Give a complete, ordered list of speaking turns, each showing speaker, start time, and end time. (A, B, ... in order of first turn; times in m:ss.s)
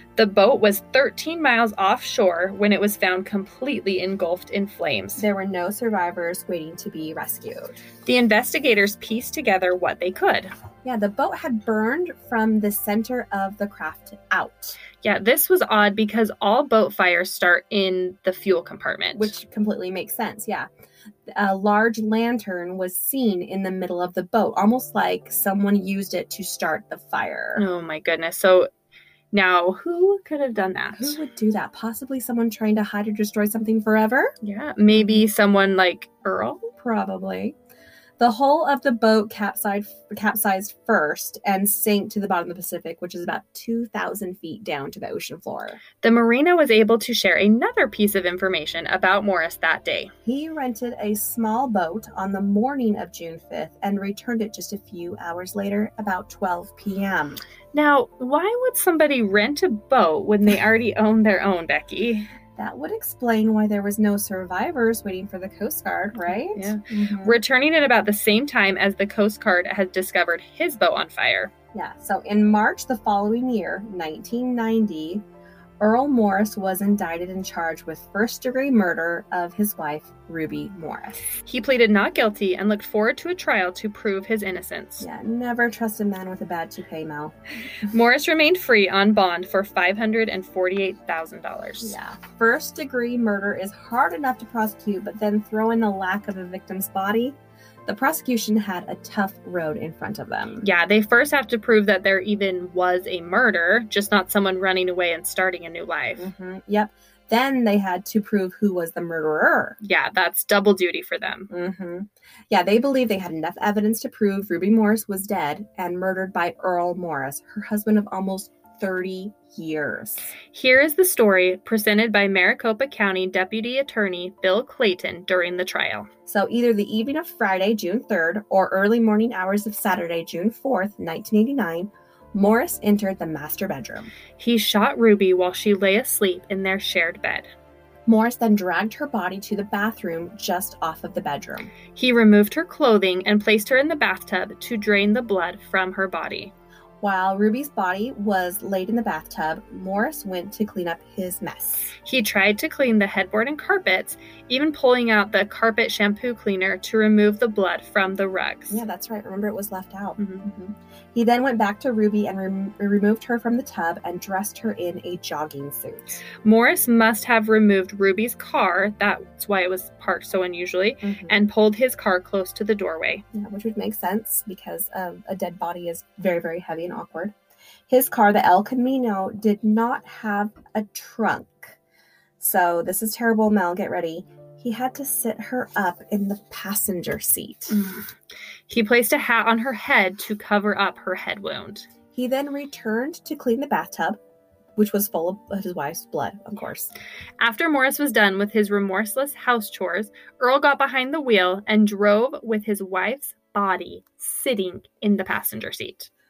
0:00.2-0:05.2 A
0:05.2-0:07.8 B
0:08.0-0:10.5 A
0:10.8-0:14.8 B
0:15.0-0:19.4 A
0:19.1-0:20.7 B
0:21.3-0:27.6 B
0:27.6-0:28.7 A
0:29.3-0:31.2 A
0:31.0-0:34.3 B
0:34.4-0:36.7 A
0:36.8-0:37.6 B
0:38.2-0:45.8 B
0:46.0-0:50.1 A
0:50.2-0:57.4 B
0:57.7-1:02.3 A
1:02.6-1:07.4 B
1:06.5-1:11.5 A
1:11.7-1:15.2 B
1:15.8-1:21.2 B
1:21.4-1:25.1 A
1:25.0-1:27.4 B
1:27.9-1:32.0 A
1:31.8-1:40.6 B
1:40.6-1:46.3 A
1:46.2-1:49.8 B
1:49.8-1:51.5 A
1:51.5-2:00.3 B
2:00.5-2:06.1 A
2:06.3-2:14.1 B
2:14.4-2:17.5 A
2:18.1-2:21.7 B
2:21.9-2:26.5 A
2:27.0-2:31.9 B
2:32.0-2:38.8 A
2:38.7-2:46.2 B
2:40.2-2:40.5 A
2:46.4-2:53.2 A
2:51.0-2:51.4 B
2:53.3-2:57.4 B
2:57.9-3:01.8 B
3:02.4-3:07.8 B
3:07.7-3:08.1 A
3:08.7-3:11.9 A
3:12.1-3:14.2 B
3:14.8-3:16.9 B
3:17.4-3:26.1 A